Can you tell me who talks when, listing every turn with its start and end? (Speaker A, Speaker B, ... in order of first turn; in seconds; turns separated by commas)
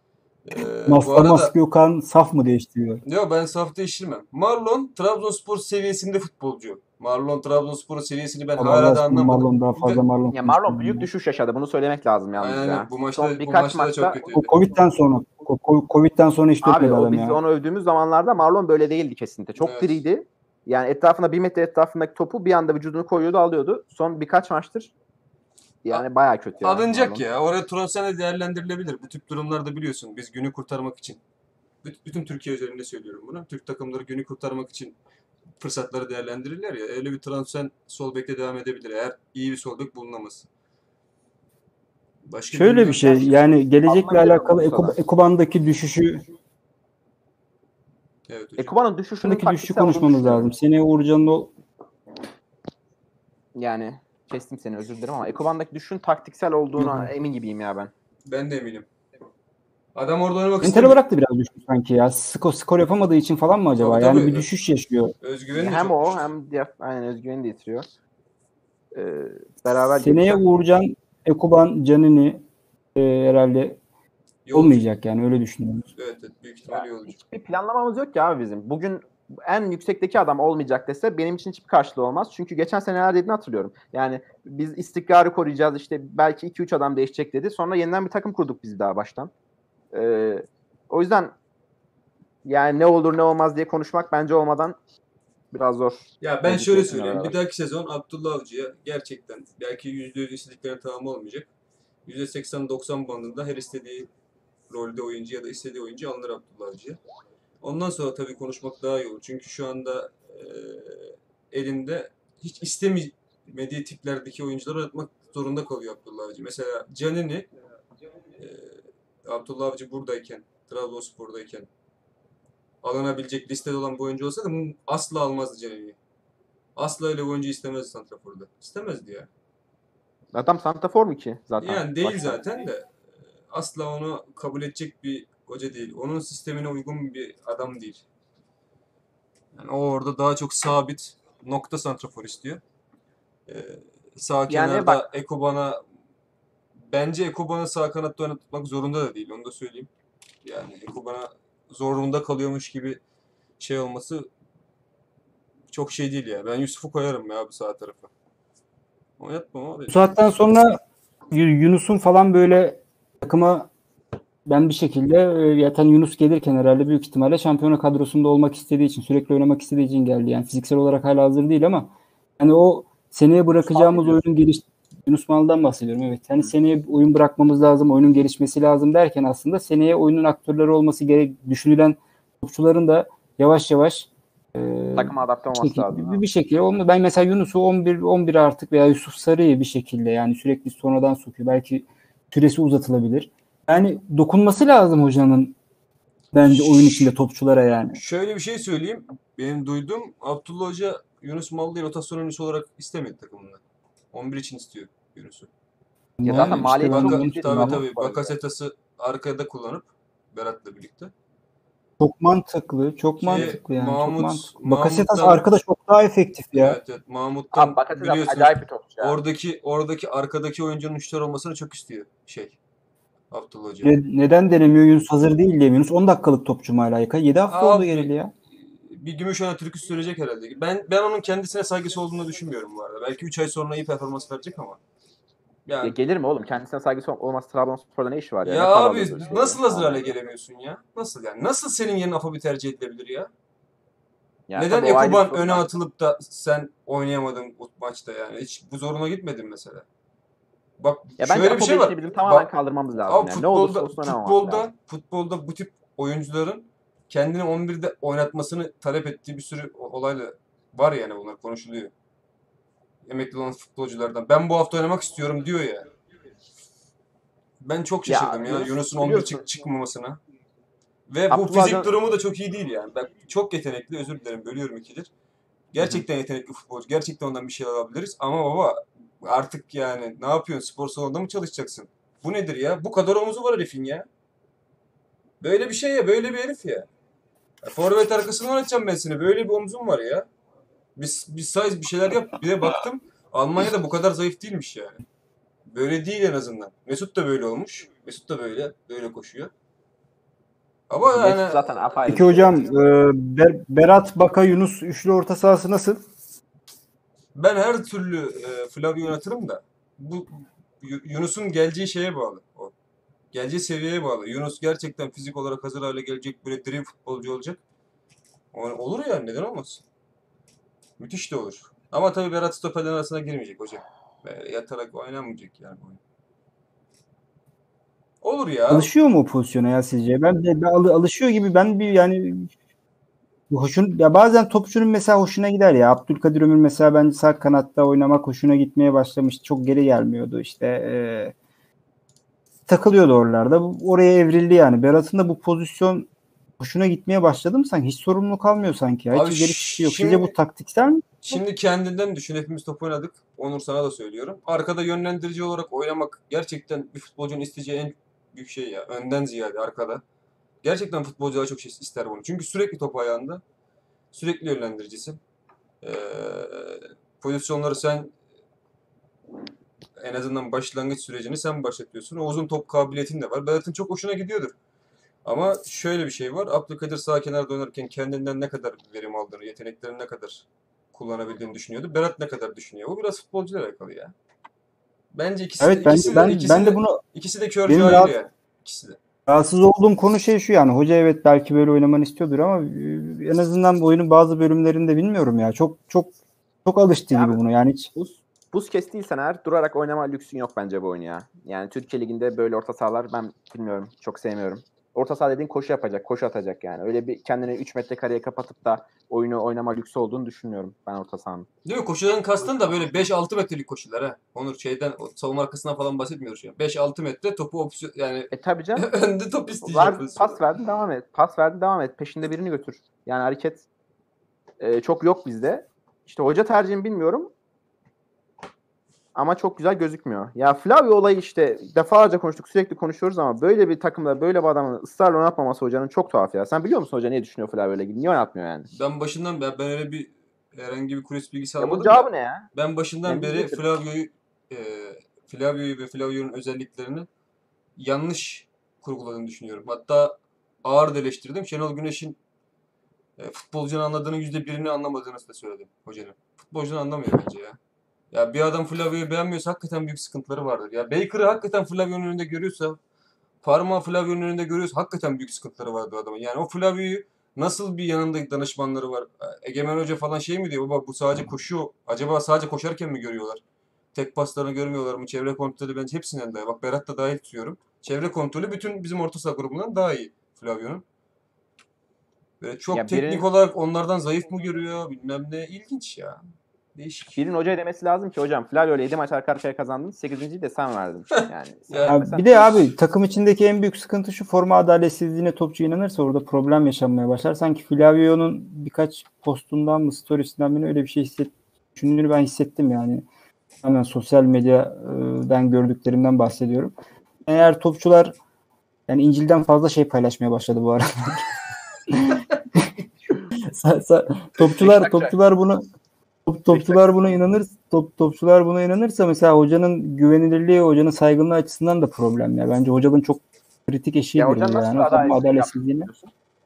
Speaker A: 0.5-1.5, Speaker B: 0.9-3.0, Speaker A: 3.0-10.0, Speaker B: 8.6-11.1, Speaker C: 10.3-14.2, Speaker A: 12.4-14.5, Speaker B: 14.3-17.4, Speaker C: 16.6-24.9, Speaker A: 19.6-20.0, Speaker C: 25.8-27.2, Speaker A: 26.6-31.2, Speaker A: 31.8-35.0, Speaker A: 35.6-40.5, Speaker A: 42.3-43.2, Speaker B: 42.5-46.2, Speaker C: 43.0-45.0, Speaker A: 48.3-48.7, Speaker C: 48.6-50.5, Speaker B: 49.2-51.5, Speaker C: 53.6-57.9, Speaker B: 56.8-57.1, Speaker A: 58.3-58.9, Speaker A: 60.0-61.0, Speaker B: 60.6-65.1, Speaker A: 63.8-64.5, Speaker A: 65.2-66.3, Speaker C: 65.5-67.9, Speaker C: 68.9-70.4, Speaker B: 70.0-72.4, Speaker B: 73.0-73.8, Speaker A: 74.5-74.8, Speaker B: 74.5-75.9, Speaker A: 76.0-77.2, Speaker C: 76.7-89.3, Speaker C: 89.9-91.3, Speaker C: 92.5-94.8, Speaker C: 95.5-97.4, Speaker A: 96.2-101.5, Speaker A: 102.1-104.1, Speaker A: 104.7-107.0, Speaker A: 107.6-117.5, Speaker A: 118.4-121.7, Speaker A: 122.8-126.0, Speaker A: 126.8-129.3, Speaker C: 130.3-132.7, Speaker A: 131.6-132.9, Speaker A: 133.5-138.0, Speaker A: 139.6-142.6, Speaker A: 143.5-145.8, Speaker C: 144.5-145.0, Speaker A: 146.8-149.9, Speaker A: 150.4-153.0, Speaker A: 153.6-154.3, Speaker A: 155.7-158.1, Speaker A: 159.2-160.0, Speaker B: 159.9-160.8, Speaker B: 161.3-163.7, Speaker B: 164.5-195.6, Speaker C: 173.7-174.2, Speaker C: 185.0-186.2, Speaker B: 196.3-198.0, Speaker A: 196.5-197.1, Speaker A: 197.9-203.6, Speaker A: 204.1-205.5, Speaker B: 206.2-207.8, Speaker C: 206.2-208.3, Speaker A: 206.2-211.1, Speaker B: 212.0-216.8, Speaker A: 213.2-215.5, Speaker A: 216.6-222.6, Speaker C: 217.5-219.2, Speaker A: 223.3-223.9, Speaker B: 223.8-228.3, Speaker A: 227.5-234.8, Speaker A: 235.7-235.9, Speaker C: 235.8-240.1, Speaker A: 238.4-243.3, Speaker C: 244.5-245.7, Speaker A: 244.6-249.8, Speaker A: 250.8-252.5, Speaker C: 251.2-254.7, Speaker A: 253.1-261.9, Speaker A: 263.1-265.9, Speaker A: 267.6-270.2, Speaker C: 268.1-269.4, Speaker A: 271.1-275.1, Speaker C: 271.3-271.9, Speaker A: 275.7-284.1, Speaker A: 285.4-286.9, Speaker A: 287.6-290.3, Speaker A: 291.0-295.0, Speaker A: 295.7-299.5, Speaker A: 300.9-301.8, Speaker C: 301.1-302.7, Speaker B: 302.1-306.0, Speaker A: 307.4-312.7, Speaker A: 313.3-317.6, Speaker A: 318.5-319.8, Speaker A: 321.0-326.0, Speaker A: 328.2-328.9, Speaker B: 328.7-332.5, Speaker B: 333.5-341.4, Speaker B: 342.7-351.4, Speaker A: 349.1-350.3, Speaker A: 351.2-360.0, Speaker A: 360.6-363.4, Speaker A: 364.1-365.2, Speaker A: 365.8-368.1, Speaker A: 370.0-374.6, Speaker A: 375.2-384.1, Speaker A: 385.1-389.0, Speaker B: 385.6-387.0, Speaker B: 387.7-388.1, Speaker B: 389.3-396.1, Speaker B: 396.6-397.9, Speaker C: 397.1-397.4, Speaker C: 397.9-411.5, Speaker A: 411.6-420.4, Speaker C: 418.3-418.9, Speaker C: 419.6-423.7, Speaker C: 424.6-427.3, Speaker C: 429.1-438.7, Speaker A: 438.7-447.1, Speaker C: 441.6-442.5, Speaker C: 443.1-443.6, Speaker A: 447.8-452.2, Speaker A: 453.2-457.6, Speaker A: 458.1-462.8, Speaker A: 463.4-473.4, Speaker A: 473.9-480.8, Speaker A: 482.4-486.2, Speaker C: 482.7-483.3, Speaker A: 486.8-487.2, Speaker C: 487.1-492.7, Speaker A: 491.7-492.0, Speaker B: 491.9-503.1, Speaker B: 503.6-506.7, Speaker B: 507.3-508.2, Speaker B: 508.9-511.3, Speaker B: 511.9-512.7, Speaker B: 513.4-515.6, Speaker C: 514.4-515.2, Speaker B: 516.3-525.9, Speaker C: 516.5-516.9, Speaker C: 524.2-526.1